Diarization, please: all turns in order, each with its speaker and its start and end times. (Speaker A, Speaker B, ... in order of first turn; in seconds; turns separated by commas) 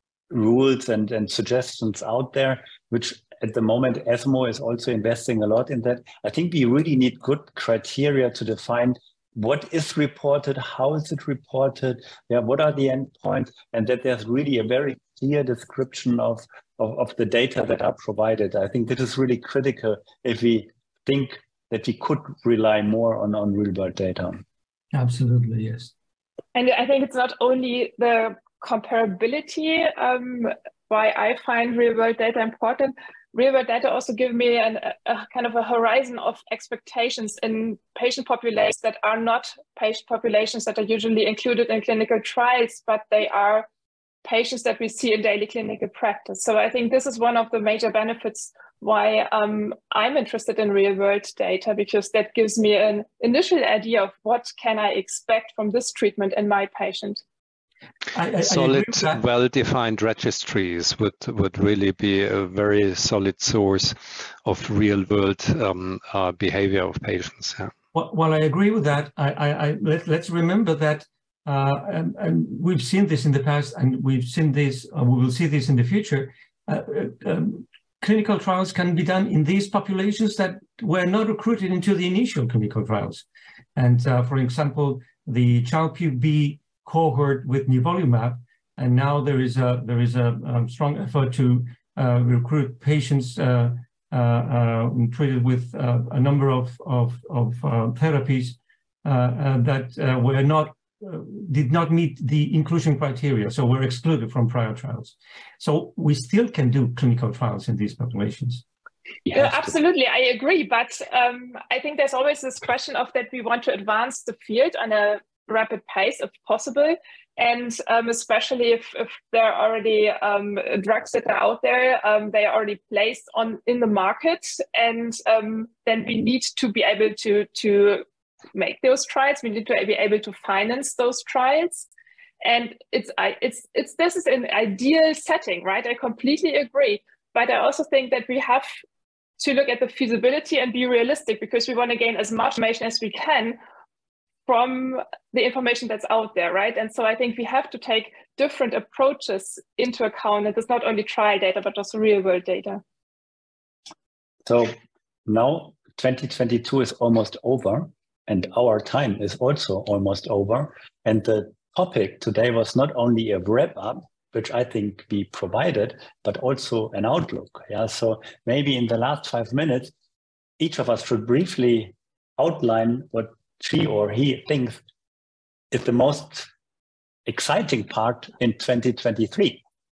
Speaker A: 0.3-24.4, Speaker B: 24.9-25.9, Speaker C: 26.6-43.7, Speaker C: 44.2-57.2, Speaker B: 58.1-59.2, Speaker D: 58.4-67.7, Speaker B: 67.9-83.2, Speaker B: 83.8-108.6, Speaker A: 109.3-109.7, Speaker C: 109.3-128.0, Speaker C: 128.6-131.9, Speaker C: 132.4-138.7, Speaker C: 139.4-143.6, Speaker C: 144.5-152.8, Speaker A: 154.5-169.9, Speaker A: 170.6-174.8, Speaker A: 175.7-176.5, Speaker A: 177.3-179.6